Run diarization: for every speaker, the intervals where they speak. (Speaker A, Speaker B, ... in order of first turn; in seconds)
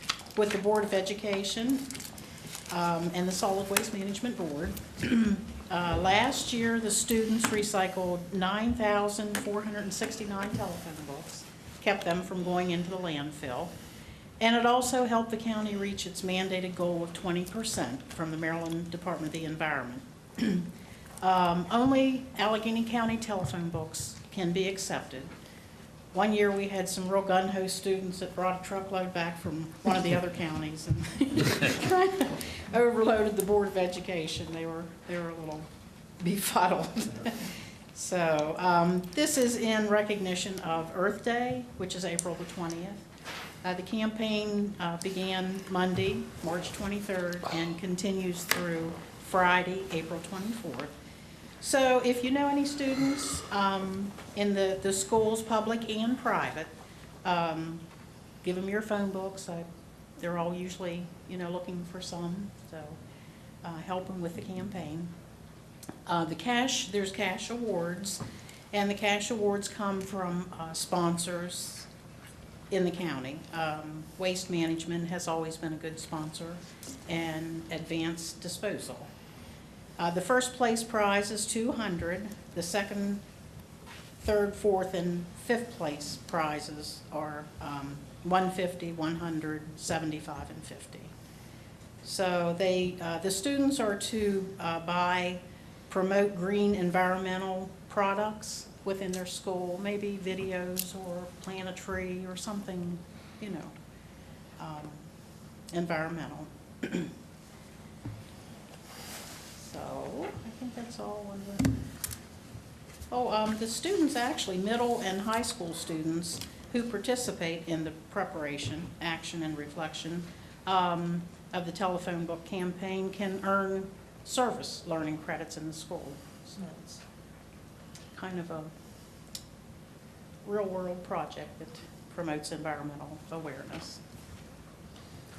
Speaker A: 0.3-1.9, 2.7-13.7, 14.4-20.7, 21.2-25.3, 26.1-35.7, 36.2-43.0, 43.6-50.9, 51.6-56.7, 57.2-57.8, 58.4-59.7, 60.2-63.0, 63.6-65.1, 66.1-68.2, 68.7-71.9, 72.7-79.1, 80.0-83.2, 84.2-91.1, 92.0-103.7, 104.6-105.1, 105.7-107.1, 109.6-111.8, 113.1-127.0, 128.2-128.7, 130.4-134.0